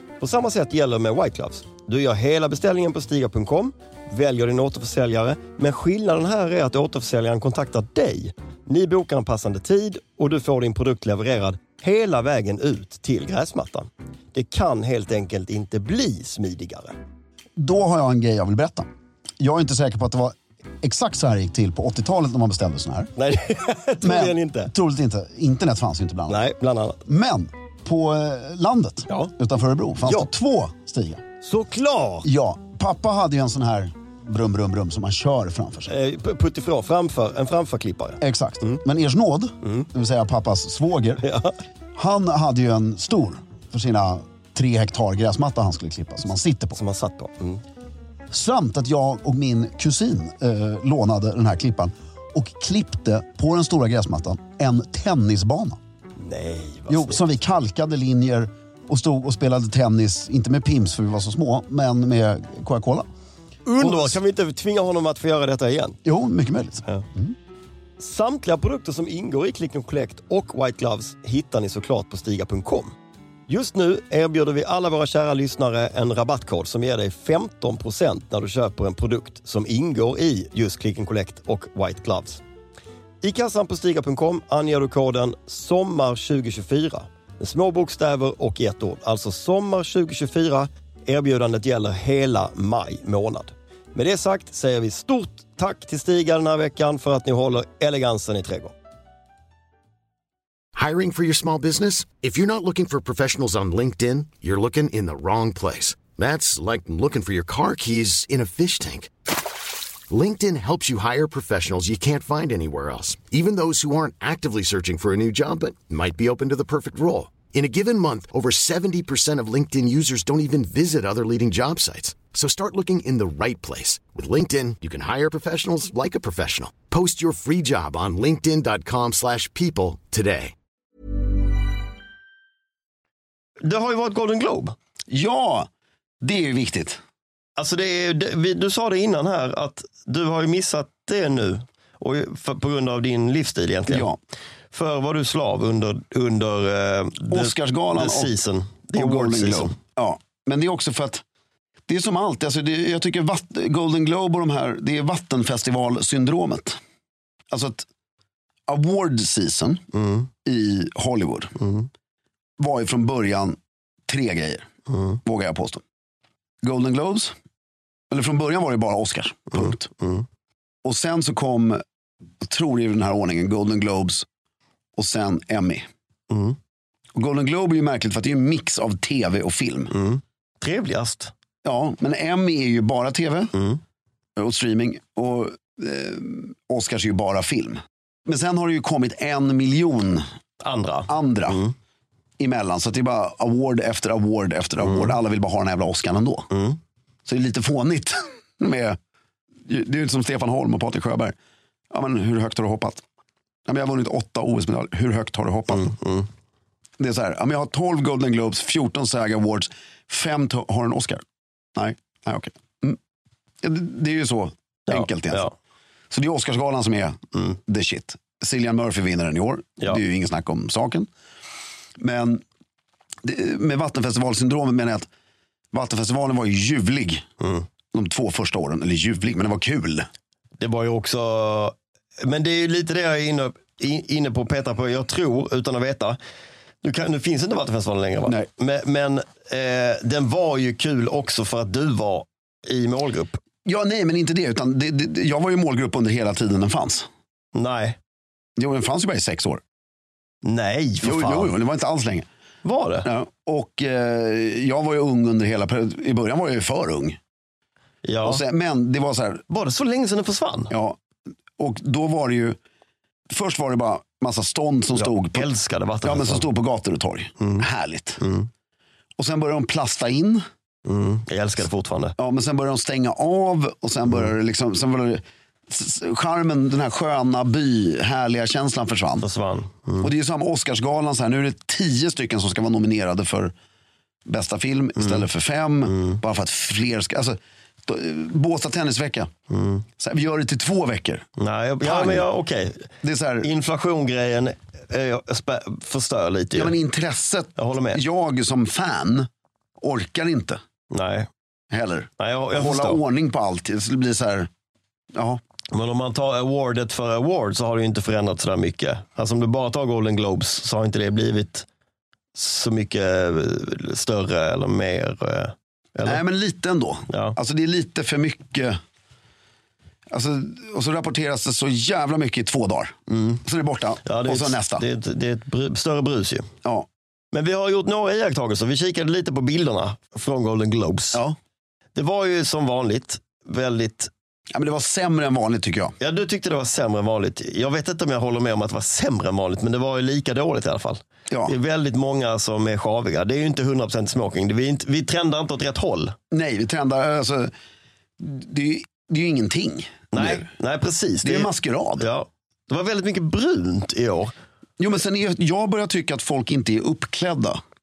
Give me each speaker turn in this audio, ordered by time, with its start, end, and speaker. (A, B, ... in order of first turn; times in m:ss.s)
0:00.2-0:17.0 A
0:17.6-0:18.9 B
0:19.4-0:23.1 B
0:23.2-0:24.7 A
0:24.0-0:26.4 B
0:26.3-0:27.0 A
0:27.0-0:31.2 B
0:31.4-0:32.3 A
0:32.2-0:36.0 B
0:35.9-0:38.8 A
0:38.2-0:41.2 B
0:41.2-0:41.6 A
0:42.0-0:46.8 B
0:46.8-0:47.6 A
0:48.3-0:55.8 B
0:56.2-0:57.2 A
0:56.9-1:03.1 B
1:03.7-1:06.0 A
1:03.8-1:04.2 B
1:06.0-1:07.3 B
1:08.0-1:12.9 A
1:13.5-1:22.4 A
1:23.2-1:38.7 A
1:40.8-1:49.3 C
1:50.1-2:10.6 C
2:13.6-2:14.8 A
2:15.1-2:15.7 B
2:16.2-2:17.0 B
2:17.6-2:24.1 A
2:23.9-2:24.2 B
2:24.7-2:29.8 A
2:27.3-2:28.3 B
2:29.0-2:31.2 B
2:31.9-2:36.8 B
2:37.5-2:37.9 B
2:38.7-2:39.9 B
2:39.9-2:40.3 A
2:40.4-2:41.6 B
2:41.6-2:41.9 A
2:42.6-2:44.7 B
2:44.9-2:45.2 A
2:45.2-2:45.8 B
2:46.6-2:47.3 B
2:48.1-2:49.9 B
2:49.5-2:50.2 A
2:50.8-2:51.8 B
2:52.4-2:54.3 B
2:55.0-2:55.9 B
2:56.3-2:56.6 A
2:57.2-2:59.9 B
2:59.9-3:01.3 A
3:01.6-3:03.5 B
3:03.6-3:03.8 A
3:04.4-3:10.2 B
3:10.6-3:11.7 A
3:11.1-3:11.6 B
3:12.4-3:16.5 B
3:14.8-3:15.2 A
3:16.5-3:16.8 A
3:17.3-3:19.0 B
3:19.7-3:21.4 B
3:21.9-3:23.0 B
3:23.7-3:26.0 B
3:25.7-3:26.3 A
3:27.0-3:31.2 B
3:31.8-3:33.0 B
3:33.6-3:35.5 B
3:34.9-3:35.5 A
3:36.1-3:41.1 B
3:42.0-3:42.4 B
3:43.2-3:45.1 B
3:45.7-3:47.3 B
3:47.4-3:47.7 A
3:47.9-3:50.1 B
3:50.6-3:56.2 A
3:56.8-4:03.4 A
4:03.6-4:07.1 B
4:07.5-4:08.0 A
4:08.6-4:09.6 B
4:10.4-4:11.5 A
4:11.0-4:12.3 B
4:12.6-4:13.1 A
4:13.0-4:17.2 B
4:18.0-4:18.4 A
4:18.2-4:19.4 B
4:19.5-4:20.7 A
4:20.7-4:21.0 B
4:21.6-4:22.6 B
4:23.3-4:25.5 B
4:25.0-4:26.5 A
4:26.0-4:28.2 B
4:28.2-4:28.5 A
4:29.2-4:30.4 B
4:30.8-4:32.2 A
4:32.2-4:39.3 B
4:39.2-4:40.1 A
4:40.0-4:43.5 B
4:44.3-4:49.3 B
4:45.0-4:45.2 A
4:45.9-4:46.2 A
4:49.5-4:49.8 A
4:50.0-4:51.3 B
4:51.4-4:52.9 A
4:51.8-4:52.3 B
4:53.0-4:53.5 B
4:53.4-4:56.8 A
4:56.5-4:59.3 B
4:57.6-4:58.0 A
4:59.8-5:00.6 B
5:00.9-5:01.3 A
5:01.7-5:04.5 B
5:02.2-5:03.0 A
5:05.1-5:05.4 B
5:05.7-5:11.7 A
5:12.4-5:16.2 A
5:16.0-5:18.8 B
5:17.1-5:17.4 A
5:20.1-5:24.8 B
5:23.1-5:23.4 A
5:24.0-5:26.5 A
5:27.3-5:31.2 A
5:32.0-5:34.1 A
5:34.5-5:36.0 B
5:36.0-5:46.2 A
5:46.3-5:47.5 B
5:48.2-5:50.5 B
5:50.1-5:54.3 A
5:51.2-5:52.1 B
5:54.8-5:57.6 B